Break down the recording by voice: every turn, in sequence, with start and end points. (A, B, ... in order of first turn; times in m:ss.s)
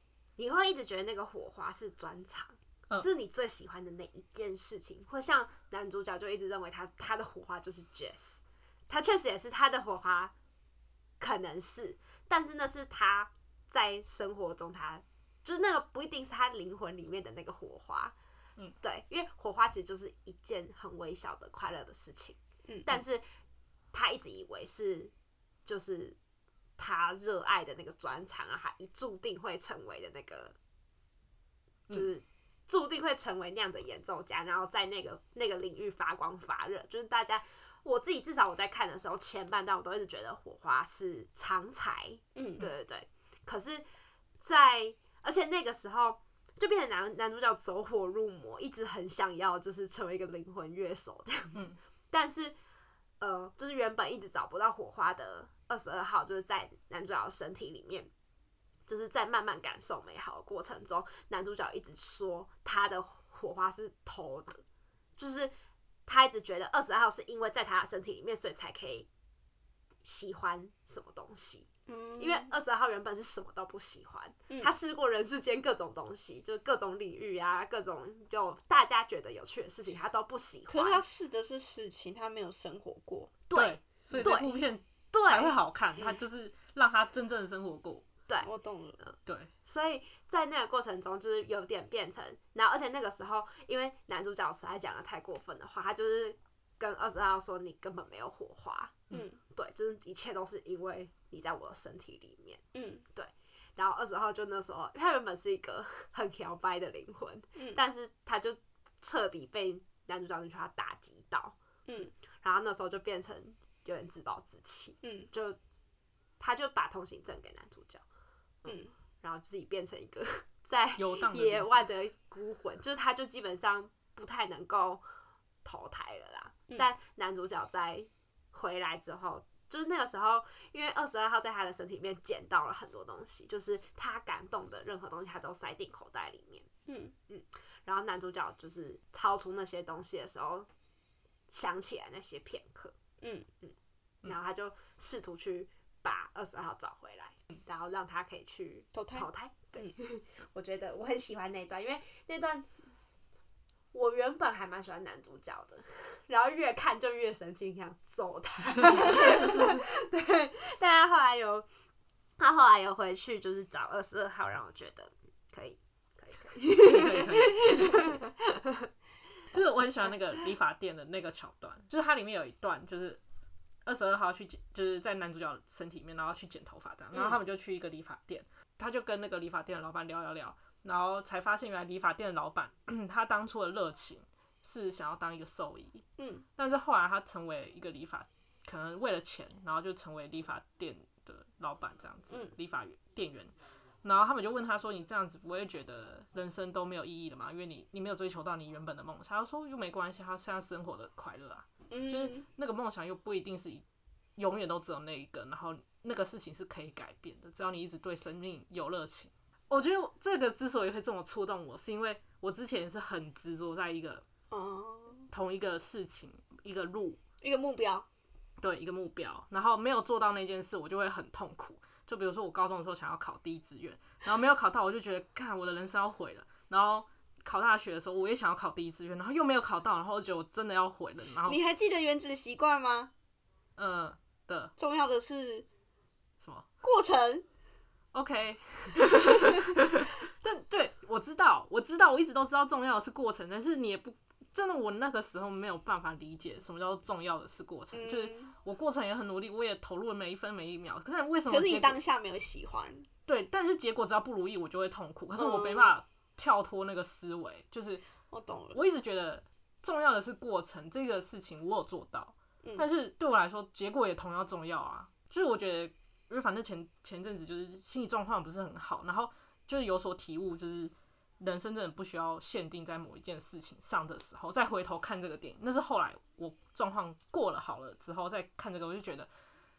0:00.4-0:10.3 A
0:11.2-0:18.2 A
0:18.8-0:23.2 A
0:23.9-0:25.1 A
0:25.7-0:26.2 A
0:26.8-0:30.6 A
0:31.9-0:43.8 A
0:42.4-0:42.6 B
0:44.4-0:52.6 A
0:53.2-0:58.1 A
0:58.9-1:04.6 A
1:05.2-1:05.5 A
1:06.1-1:09.1 A
1:10.0-1:11.7 A
1:11.9-1:12.5 B
1:12.2-1:21.0 A
1:20.7-1:23.3 B
1:23.5-1:25.6 A
1:23.5-1:28.1 C
1:28.4-1:29.0 B
1:29.0-1:42.6 A
1:29.3-1:29.5 C
1:39.1-1:39.4 B
1:42.7-1:43.0 B
1:43.2-1:51.6 A
1:51.9-1:52.1 B
1:52.4-1:55.6 A
1:55.0-1:55.3 B
1:56.4-1:58.0 A
1:58.6-2:05.0 A
1:58.7-1:58.9 B
2:01.0-2:01.9 C
2:05.6-2:16.7 A
2:16.9-2:17.1 B
2:17.3-2:20.7 A
2:21.5-2:23.0 A
2:23.6-2:32.7 A
2:28.9-2:29.9 B
2:33.9-2:41.7 A
2:38.9-2:39.8 C
2:42.4-2:48.9 A
2:46.8-2:48.0 C
2:49.5-2:53.2 C
2:53.8-3:06.0 C
3:06.2-3:06.4 B
3:06.6-3:23.8 C
3:12.3-3:12.6 B
3:21.9-3:22.5 B
3:24.4-3:34.2 C
3:34.5-3:35.3 B
3:35.3-3:37.2 C
3:37.4-3:38.1 B
3:38.6-3:51.6 C
3:51.5-3:53.1 B
3:53.8-3:54.7 C
3:54.8-3:55.7 B
3:56.4-3:56.7 C
3:56.8-3:57.4 B
3:58.1-4:12.0 C
4:07.9-4:08.5 B
4:11.5-4:13.1 B
4:13.3-4:18.0 C
4:15.4-4:15.9 B
4:18.3-4:18.8 B
4:18.7-4:39.3 C